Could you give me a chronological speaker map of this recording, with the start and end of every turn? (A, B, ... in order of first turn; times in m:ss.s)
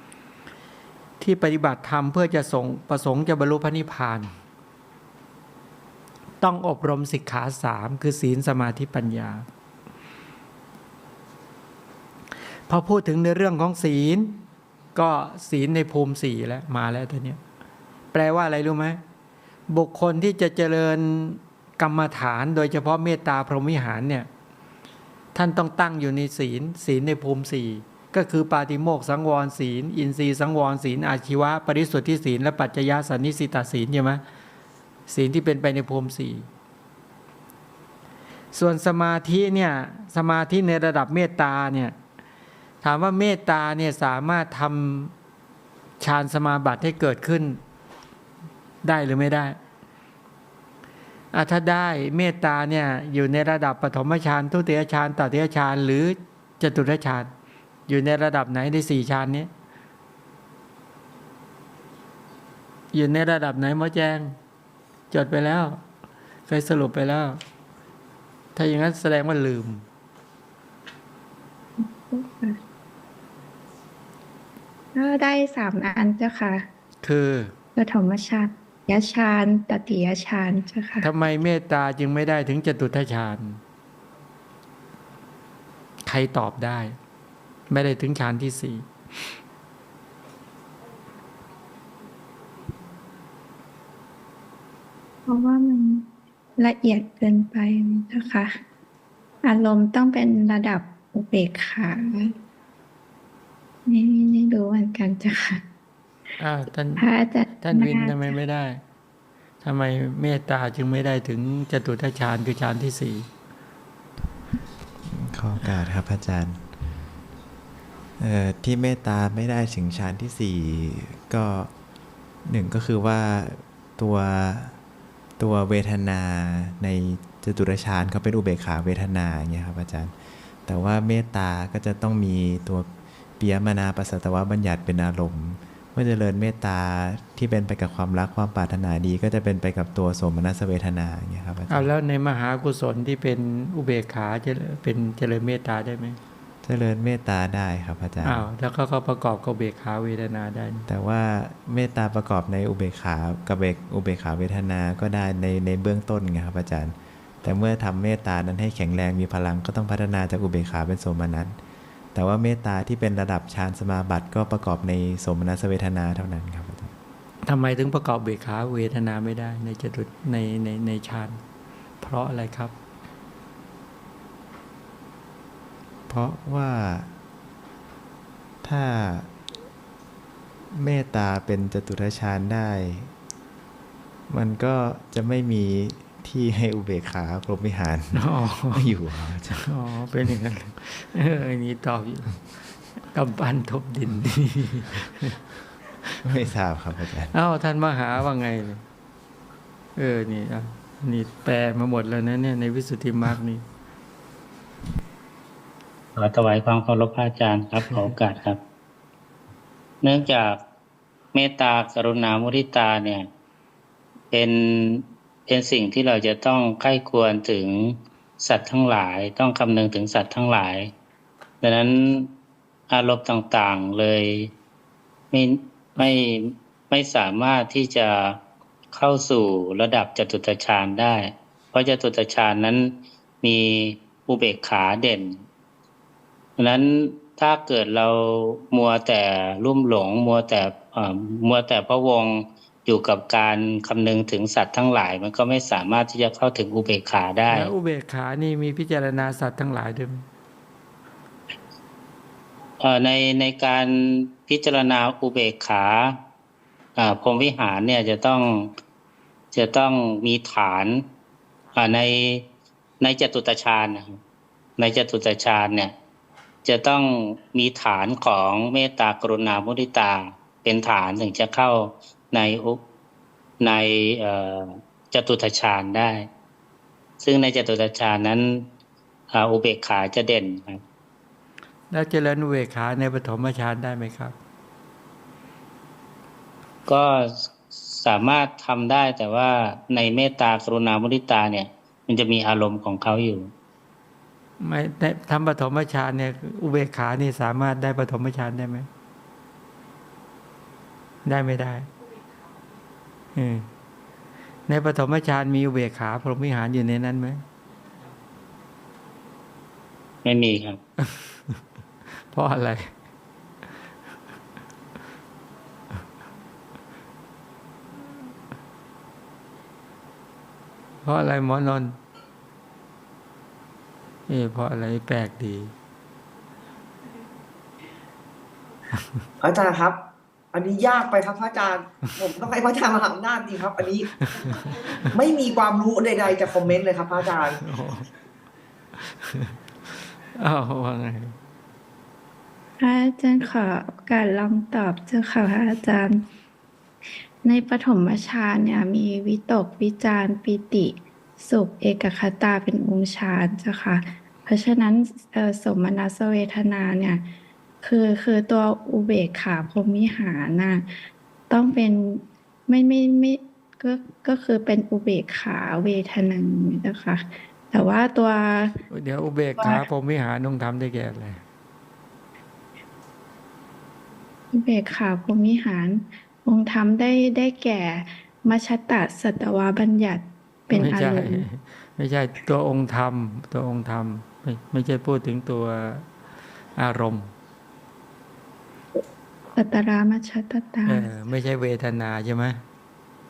0:01.2-0:04.3 A
0:06.4-0:09.4 A
0:12.7-0:14.4 A
0:14.9-0:17.4 A
0:18.1-0:19.0 A
0:19.7-0:24.3 A
0:25.3-0:34.2 A
0:35.1-0:36.5 A
0:38.5-0:41.9 A
0:42.8-0:45.1 A
0:46.0-0:47.6 A
0:48.8-0:49.6 A
0:51.3-0:57.3 A
0:57.9-0:59.5 A
1:02.9-1:04.3 A
1:05.1-1:05.8 A
1:06.5-1:07.4 A
1:08.5-1:09.8 A
1:11.8-1:12.6 B
1:14.9-1:16.7 B
1:17.0-1:17.5 A
1:17.8-1:21.1 B
1:21.0-1:23.6 A
1:26.0-1:27.0 A
1:27.7-1:28.8 A
1:35.3-1:38.6 B
1:39.4-1:42.3 B
1:43.8-1:45.6 B
1:46.4-1:47.0 A
1:47.0-1:48.3 B
1:47.6-1:48.8 A
1:49.6-1:53.3 A
1:55.1-1:56.6 C
1:58.2-2:01.7 C
2:02.4-2:04.8 C
2:05.4-2:10.1 C
2:10.6-2:12.9 C
2:13.4-2:21.9 C
2:21.7-2:26.2 A
2:26.6-2:28.5 C
2:28.2-2:30.9 A
2:30.9-2:41.6 C
2:42.1-2:46.9 C
2:47.4-2:51.4 A
2:52.0-2:52.7 A
2:56.1-2:57.1 C
2:58.6-2:59.3 C
3:00.7-3:03.1 C
3:04.3-3:09.7 C
3:08.1-3:08.9 A
3:09.6-3:12.4 A
3:13.1-3:15.4 A
3:16.2-3:17.3 C
3:17.3-3:18.8 A
3:20.0-3:23.6 A
3:26.2-3:28.6 D
3:30.0-3:30.6 D
3:31.3-3:33.3 D
3:34.3-3:40.9 D
3:41.6-3:42.3 D
3:42.9-3:44.5 D
3:45.3-3:48.4 D
3:48.9-3:55.4 D
3:56.6-4:07.7 D
4:07.5-4:10.2 A
4:12.8-4:16.2 D
4:17.0-4:18.7 D
4:19.5-4:21.0 D
4:21.7-4:22.4 D
4:23.0-4:24.2 D
4:24.8-4:25.9 D
4:26.6-4:32.8 D
4:33.6-4:36.3 D
4:37.2-4:38.6 D
4:39.3-4:40.8 D
4:41.9-4:44.3 A
4:46.9-4:53.5 D
4:54.6-4:58.9 A
5:01.2-5:01.9 A
5:03.3-5:03.7 A
5:04.7-5:07.4 A
5:10.2-5:10.8 D
5:11.0-5:11.3 A
5:12.3-5:12.9 A
5:21.0-5:22.0 A
5:24.3-5:25.7 A
5:29.4-5:30.0 E
5:30.5-5:34.1 E
5:34.3-5:34.7 A
5:35.1-5:37.6 E
5:37.6-5:38.1 A
5:40.3-5:41.3 A
5:42.8-5:46.2 B
5:47.4-5:57.2 B
5:57.8-6:01.0 B
6:01.5-6:08.8 B
6:08.9-6:11.4 A
6:14.5-6:21.4 B
6:20.7-6:26.0 A
6:26.8-6:27.3 A
6:29.6-6:31.1 B
6:30.8-6:32.6 A